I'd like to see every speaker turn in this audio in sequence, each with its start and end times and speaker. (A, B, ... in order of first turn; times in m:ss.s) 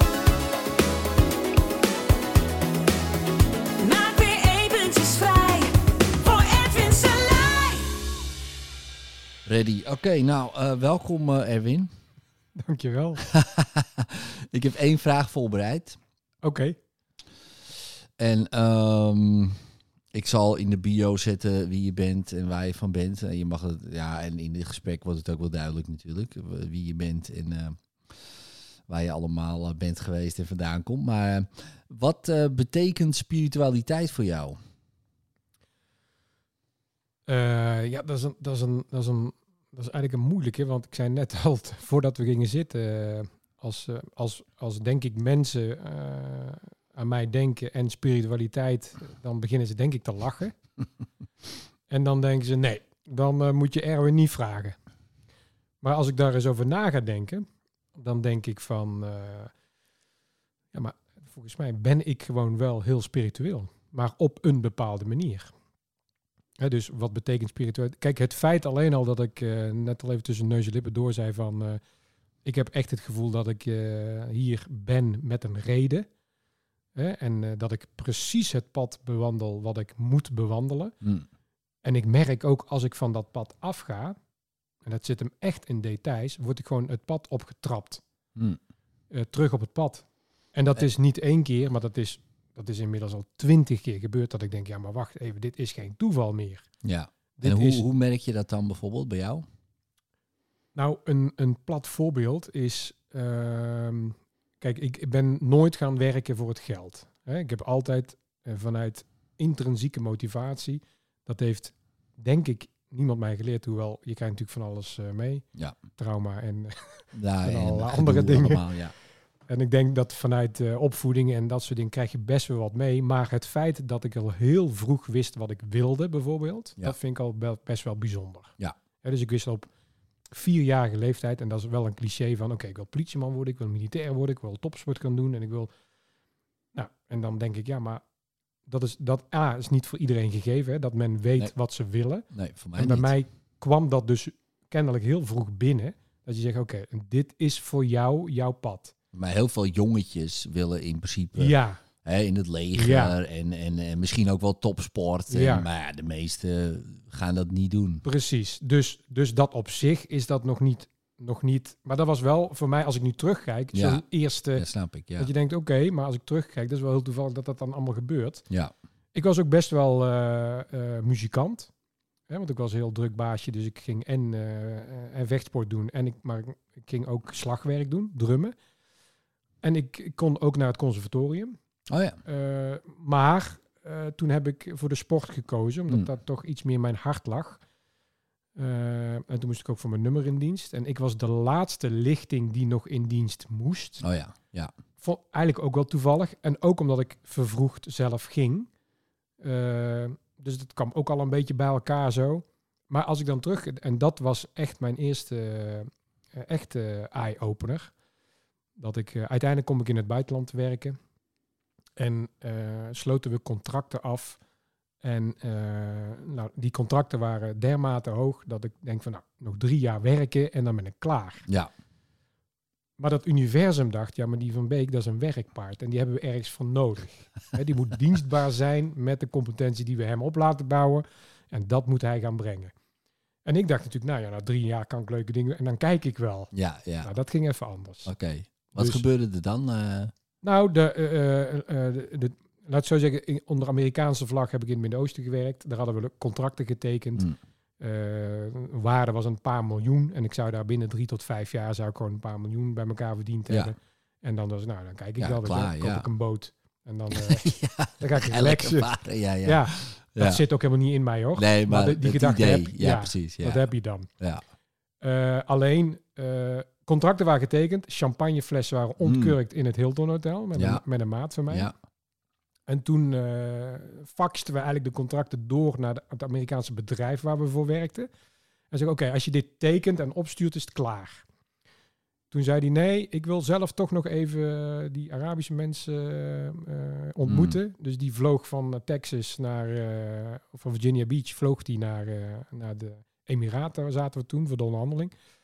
0:03.8-0:07.9 A
0:09.4-0:11.9 B
0:12.6-0:13.2 C
0:13.2-0:16.0 B
0:16.4-0:16.8 C
0:18.2-0:19.6 B
0:20.1-0:27.8 B
0:28.9-0:34.6 B
0:37.3-0:50.6 C
0:51.9-0:54.8 C
0:55.8-0:57.4 C
0:57.9-0:59.5 C
1:00.7-1:05.5 C
1:06.6-1:11.8 C
1:12.4-1:16.1 C
1:16.9-1:21.0 C
1:21.8-1:24.2 C
1:24.8-1:28.0 C
1:29.1-1:36.6 C
1:36.8-1:39.4 B
1:37.4-1:37.8 C
1:40.8-1:55.4 C
1:56.0-1:58.7 C
1:57.1-1:58.9 B
1:59.5-2:09.7 C
2:10.3-2:15.7 C
2:16.7-2:18.0 C
2:18.7-2:28.9 C
2:22.3-2:23.1 B
2:29.1-2:38.0 B
2:31.4-2:31.8 C
2:32.7-2:33.2 C
2:35.3-2:35.7 C
2:38.0-2:48.4 C
2:43.7-2:44.0 B
2:44.5-2:45.3 B
2:49.1-2:51.7 C
2:52.3-2:58.5 C
2:59.6-3:01.5 C
3:01.9-3:02.2 B
3:02.2-3:07.6 C
3:08.6-3:14.0 C
3:14.0-3:14.7 B
3:15.0-3:18.7 C
3:19.4-3:27.9 C
3:28.8-3:31.0 C
3:32.0-3:34.4 C
3:35.0-3:41.4 C
3:43.0-3:52.7 C
3:53.4-3:56.5 C
3:56.5-3:57.1 B
3:57.0-3:58.1 C
3:58.0-4:00.1 B
3:58.7-3:59.0 C
4:00.4-4:07.3 C
4:07.8-4:18.9 C
4:15.2-4:16.0 B
4:17.1-4:20.4 B
4:19.4-4:24.1 C
4:21.3-4:23.7 B
4:25.0-4:31.7 C
4:29.0-4:29.4 B
4:30.5-4:30.8 B
4:32.7-4:38.1 C
4:38.7-4:41.2 C
4:42.3-4:55.1 C
4:47.2-4:47.6 B